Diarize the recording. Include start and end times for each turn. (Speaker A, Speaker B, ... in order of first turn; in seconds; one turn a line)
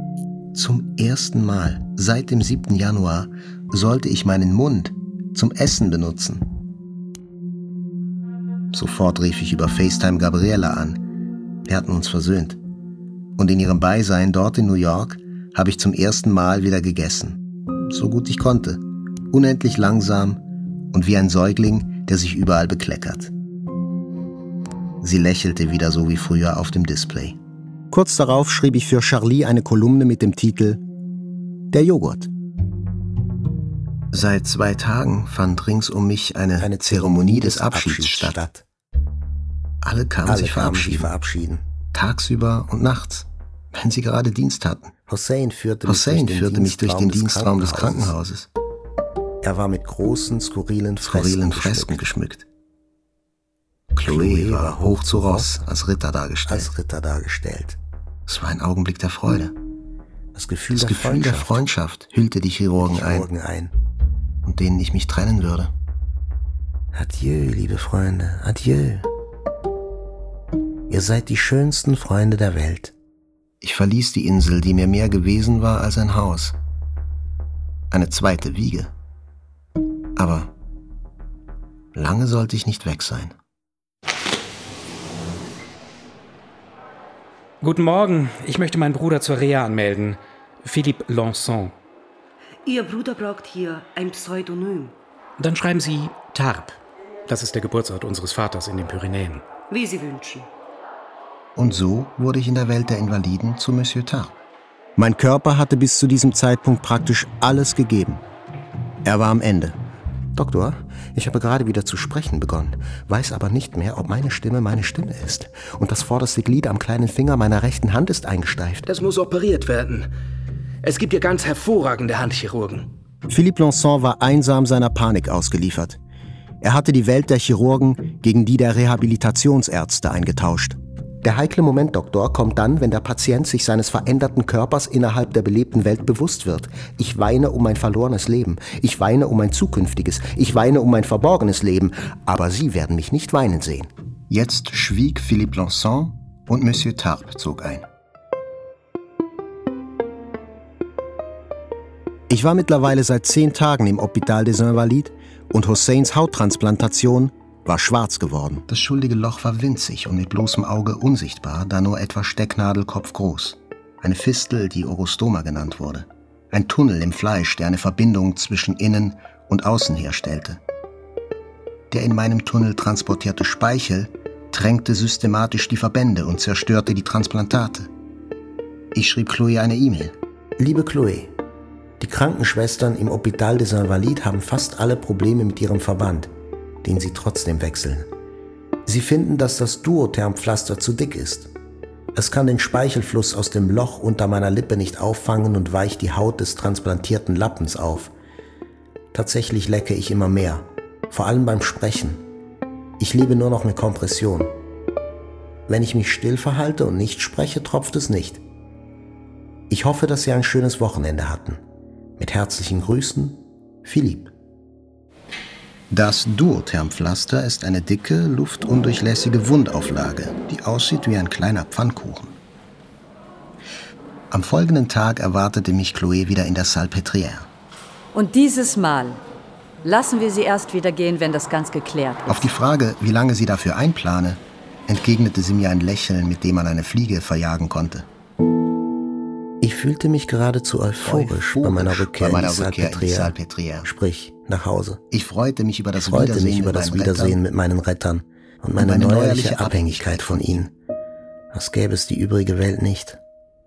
Speaker A: 0.5-6.5
Speaker A: 8.7-11.0
Speaker A: 11.7-12.6
Speaker A: 13.4-20.4
Speaker A: 20.9-23.3
Speaker A: 25.0-27.4
Speaker A: 27.9-30.8
Speaker A: 31.7-32.3
Speaker A: 34.1-38.4
Speaker B: 36.6-38.6
Speaker A: 39.8-41.1
Speaker B: 40.2-41.6
Speaker A: 41.9-44.9
Speaker B: 45.1-48.1
Speaker A: 45.9-48.5
Speaker B: 49.4-52.0
Speaker A: 51.0-52.5
Speaker A: 53.9-56.7
Speaker B: 54.0-55.7
Speaker B: 56.5-57.8
Speaker A: 58.3-59.5
Speaker B: 60.3-61.7
Speaker A: 60.7-63.3
Speaker B: 62.8-63.7
Speaker A: 64.5-65.7
Speaker B: 66.9-69.1
Speaker B: 70.9-72.9
Speaker A: 73.6-76.6
Speaker A: 77.9-78.9
Speaker A: 80.2-80.5
Speaker A: 81.9-83.3
Speaker C: 87.6-91.7
Speaker D: 92.7-94.9
Speaker C: 95.4-99.5
Speaker D: 99.7-100.5
Speaker A: 101.6-104.4
Speaker A: 105.0-108.2
Speaker A: 109.0-109.8
Speaker B: 110.3-118.8
Speaker E: 118.8-120.1
Speaker E: 120.8-122.9
Speaker A: 123.3-126.0
Speaker A: 126.6-130.8
Speaker B: 131.2-133.5
Speaker A: 133.2-134.5
Speaker B: 134.0-143.9
Speaker A: 144.3-147.9
Speaker A: 152.3-170.6
Speaker A: 171.9-177.9
Speaker A: 178.9-180.2
Speaker B: 180.6-181.3
Speaker B: 182.0-186.3
Speaker B: 186.8-188.1
Speaker B: 188.8-191.5
Speaker B: 192.2-198.1
Speaker B: 199.1-202.2
Speaker B: 203.0-204.5
Speaker B: 205.7-208.4
Speaker B: 209.7-211.6
Speaker B: 212.2-214.3
Speaker A: 215.9-222.4
Speaker A: 224.3-227.5
Speaker F: 228.1-229.2
Speaker F: 229.8-232.5
Speaker A: 232.3-238.1
Speaker B: 239.6-245.0
Speaker A: 241.0-243.9
Speaker A: 245.1-247.4
Speaker B: 245.9-250.7
Speaker A: 248.8-250.6
Speaker B: 251.5-253.2